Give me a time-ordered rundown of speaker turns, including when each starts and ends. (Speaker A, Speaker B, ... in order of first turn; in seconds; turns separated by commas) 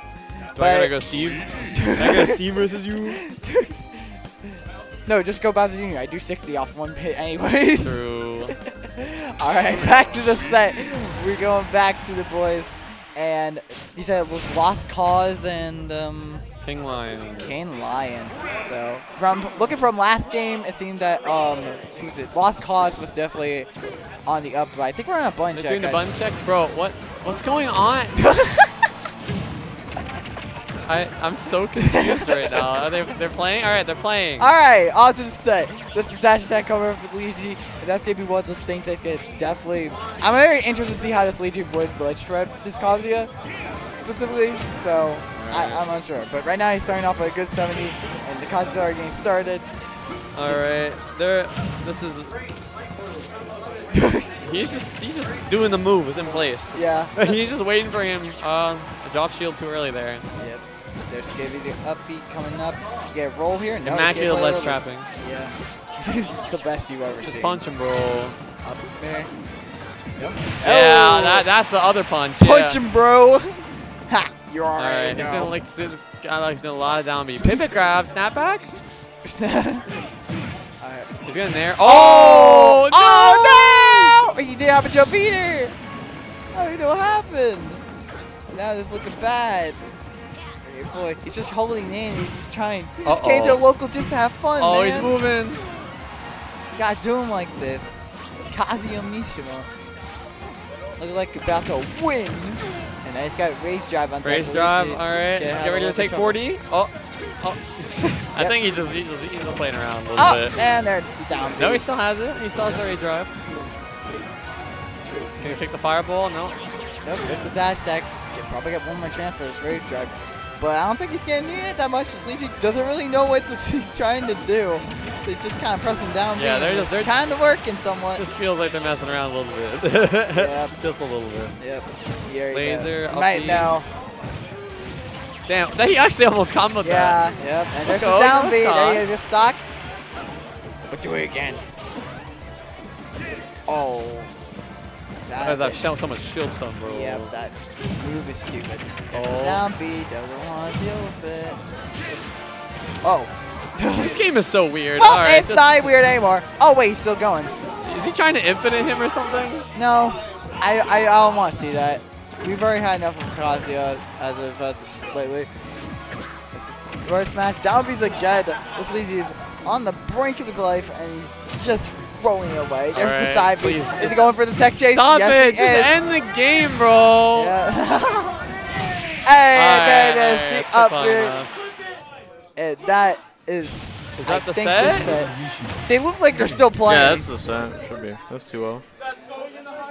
Speaker A: 0.6-0.9, Speaker B: 0.6-3.1, Speaker A: 1.7-2.4, Speaker C: 2.1-3.0, Speaker A: 3.0-4.2, Speaker A: 5.1-8.0, Speaker B: 7.8-8.6, Speaker A: 8.5-16.4, Speaker B: 16.6-17.6, Speaker A: 17.4-23.7, Speaker A: 24.3-26.1, Speaker B: 25.5-28.2, Speaker A: 28.2-28.9, Speaker B: 30.9-34.5, Speaker A: 31.8-32.6, Speaker A: 34.4-43.3, Speaker A: 44.0-49.7, Speaker B: 45.3-45.8, Speaker B: 50.4-52.3, Speaker A: 53.9-54.3, Speaker B: 54.4-60.3, Speaker A: 56.7-57.4, Speaker A: 60.4-67.6, Speaker B: 63.8-65.1, Speaker B: 67.2-68.4, Speaker A: 68.6-69.3, Speaker A: 70.2-71.5, Speaker B: 70.6-72.8, Speaker A: 72.4-75.6, Speaker B: 74.8-78.7, Speaker A: 77.4-77.7, Speaker A: 79.2-79.9, Speaker A: 80.8-81.1, Speaker B: 81.2-84.2, Speaker A: 81.8-85.8, Speaker A: 86.5-87.8, Speaker A: 88.5-89.8, Speaker A: 90.6-95.2, Speaker B: 93.0-93.7, Speaker B: 94.6-95.6, Speaker A: 96.7-99.7, Speaker A: 101.0-106.4, Speaker B: 104.2-110.6, Speaker A: 110.2-111.8, Speaker B: 111.6-113.3, Speaker B: 115.4-116.6, Speaker A: 117.0-128.2, Speaker B: 126.3-127.2, Speaker B: 128.1-131.6, Speaker A: 130.3-130.8, Speaker A: 131.6-133.9, Speaker B: 132.5-133.7, Speaker B: 135.5-139.1, Speaker A: 136.8-139.6, Speaker A: 140.9-141.7, Speaker A: 143.7-144.3, Speaker A: 145.3-145.8, Speaker B: 145.4-147.3, Speaker A: 146.8-151.6, Speaker B: 149.1-149.7, Speaker A: 153.0-154.2, Speaker B: 153.9-155.9, Speaker A: 155.0-157.5, Speaker B: 157.8-159.7, Speaker A: 159.8-165.5, Speaker A: 166.5-175.9, Speaker B: 172.9-177.5, Speaker A: 177.3-178.4, Speaker A: 179.2-181.4, Speaker B: 179.5-181.5, Speaker A: 182.6-187.3, Speaker B: 184.2-185.2, Speaker C: 186.8-188.8